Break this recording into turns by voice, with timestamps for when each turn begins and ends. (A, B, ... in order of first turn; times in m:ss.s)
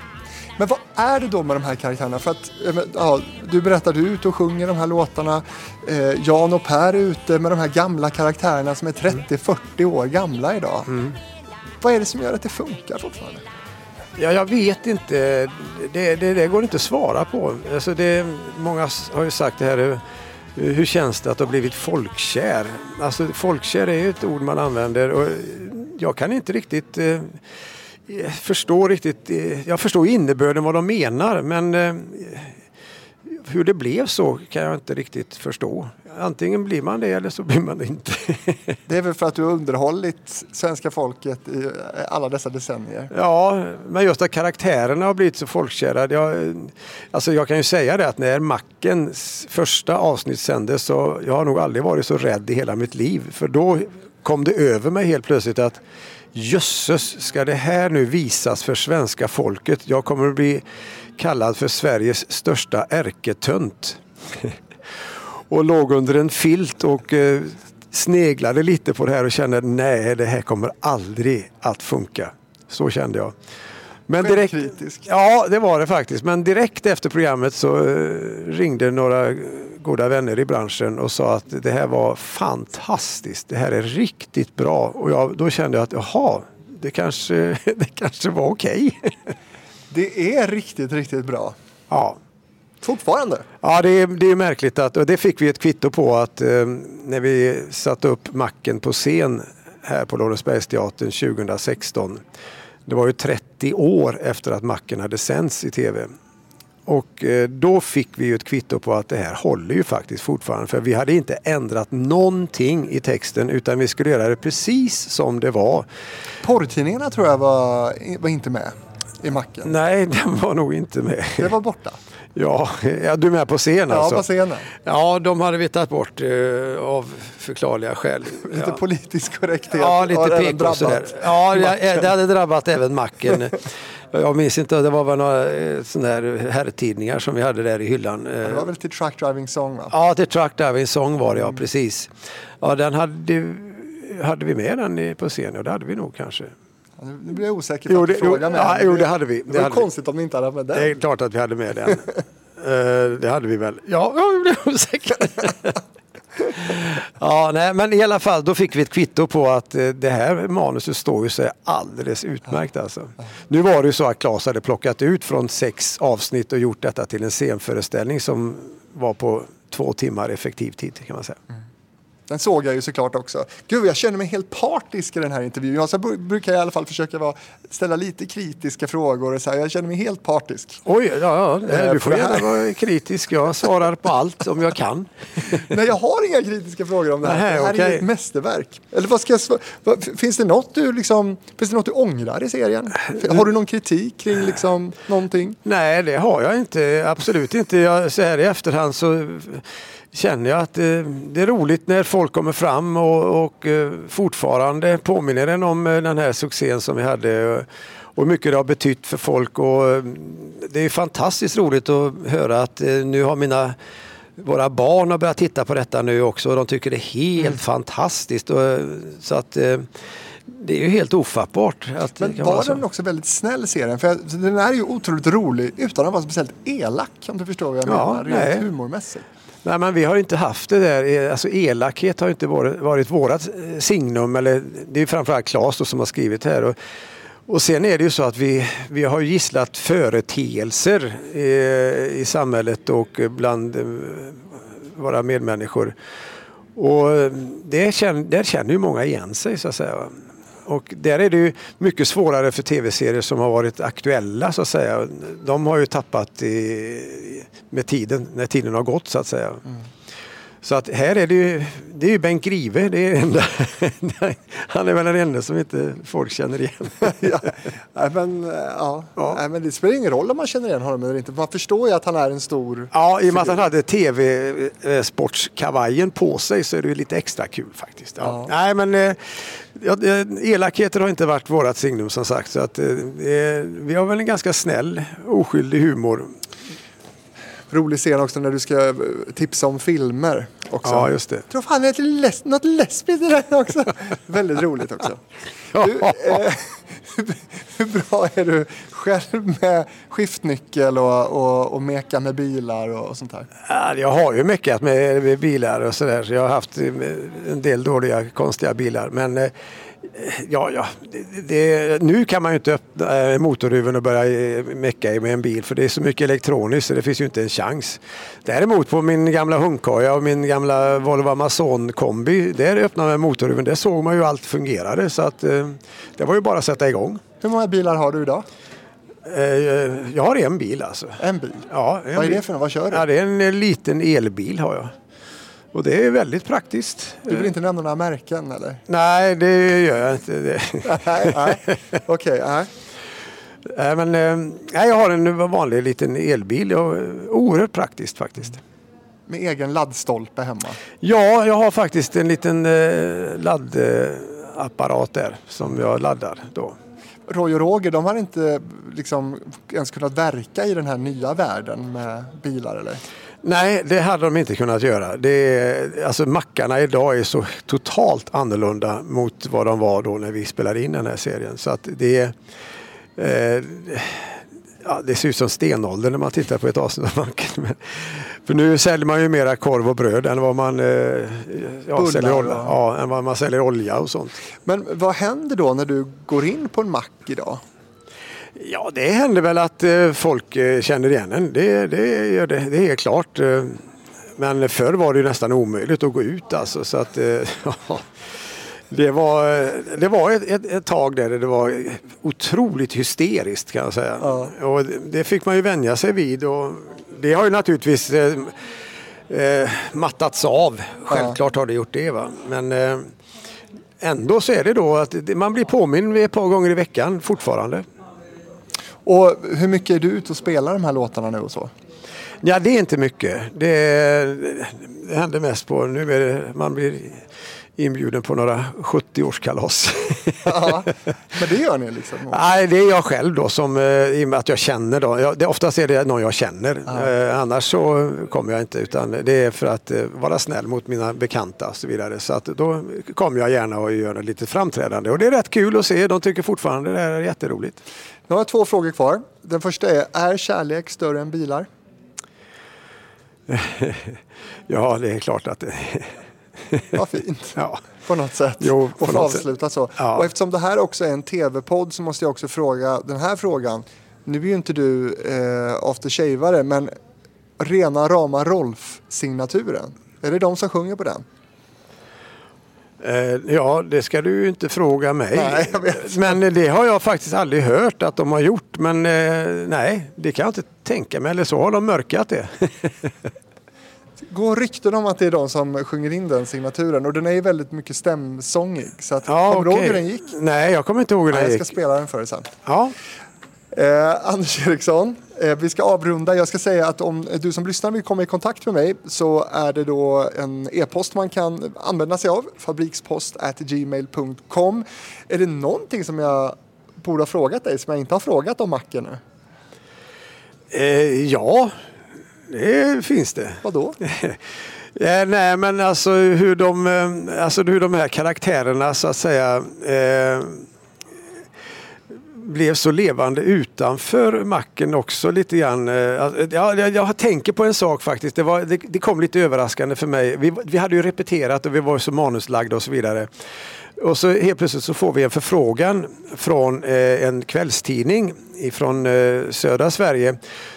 0:00.6-0:10.9 A
0:10.9-0:11.2 B
0:11.8-0:13.4 A
0:14.2-0:20.0 B
0:20.6-0:27.4 B
0:28.1-0:32.6 B
0:33.3-0:38.8 B
0:38.9-0:43.1 A
0:43.1-0:55.8 B
0:56.3-1:00.6 B
1:01.2-1:04.5 B
1:05.5-1:13.3 B
1:14.1-1:29.3 B
1:14.2-1:15.1 A
1:29.9-1:31.6 A
1:31.9-1:32.2 B
1:32.8-1:33.5 A
1:33.6-1:42.2 B
1:42.9-1:46.1 B
1:46.9-1:55.9 B
1:56.4-1:59.7 A
1:59.6-2:01.6 B
2:01.4-2:02.0 A
2:02.4-2:04.2 B
2:03.9-2:04.7 A
2:04.8-2:08.8 B
2:08.5-2:11.9 A
2:09.8-2:18.7 B
2:18.4-2:20.0 A
2:19.9-2:22.1 B
2:22.6-2:26.5 B
2:27.0-2:30.9 A
2:27.9-2:29.9 B
2:30.7-2:32.0 B
2:32.6-2:35.7 B
2:36.5-2:51.4 B
2:52.3-3:00.8 A
3:00.9-3:05.8 B
3:01.7-3:02.6 A
3:05.5-3:15.6 A
3:07.2-3:08.1 B
3:15.6-3:33.8 B
3:34.4-3:39.9 B
3:40.5-3:42.8 B
3:42.2-3:49.2 A
3:47.8-3:48.6 B
3:49.6-3:56.8 B
3:57.5-4:06.0 B
4:06.8-4:19.6 B
4:20.6-4:27.2 B
4:27.1-4:33.6 A
4:32.9-4:46.3 B
4:38.2-4:38.5 A
4:47.7-4:55.2 A
4:50.8-4:51.4 B
4:55.7-4:56.4 B
4:55.8-5:03.5 A
5:03.7-5:27.2 B
5:27.4-5:28.5 A
5:29.3-5:34.9 B
5:31.2-5:33.0 A
5:35.7-5:37.5 B
5:37.3-5:38.8 A
5:38.9-5:41.6 B
5:40.8-5:42.7 A
5:43.7-5:48.6 B
5:49.3-5:50.8 A
5:51.0-5:56.8 B
5:57.3-6:03.0 A
6:03.4-6:12.4 B
6:13.2-6:24.4 B
6:22.0-6:22.7 A
6:24.6-6:27.6 A
6:28.6-6:33.8 B
6:34.4-6:38.1 B
6:38.9-6:48.6 B
6:44.2-6:44.5 A
6:49.3-6:53.1 B
6:51.1-6:51.4 A
6:54.0-6:57.8 B
6:59.0-7:01.7 A
7:02.4-7:07.2 B
7:07.8-7:10.8 B
7:10.4-7:12.4 A
7:12.3-7:27.8 B
7:28.3-7:31.7 A
7:33.5-7:36.1 B
7:36.7-7:37.0 B
7:37.0-7:46.9 A
7:37.6-7:37.8 B
7:38.6-7:39.4 B
7:40.0-7:40.3 B
7:47.6-7:51.2 A
7:53.0-8:03.1 B
7:55.3-7:56.4 A
8:04.3-8:10.3 A
8:09.3-8:11.7 B
8:11.3-8:12.5 A
8:12.7-8:13.0 B
8:13.7-8:29.2 A
8:30.7-8:31.7 B
8:32.5-8:34.4 B
8:33.6-8:34.0 A
8:35.0-8:40.6 B
8:42.1-8:53.3 B
8:54.0-9:00.4 B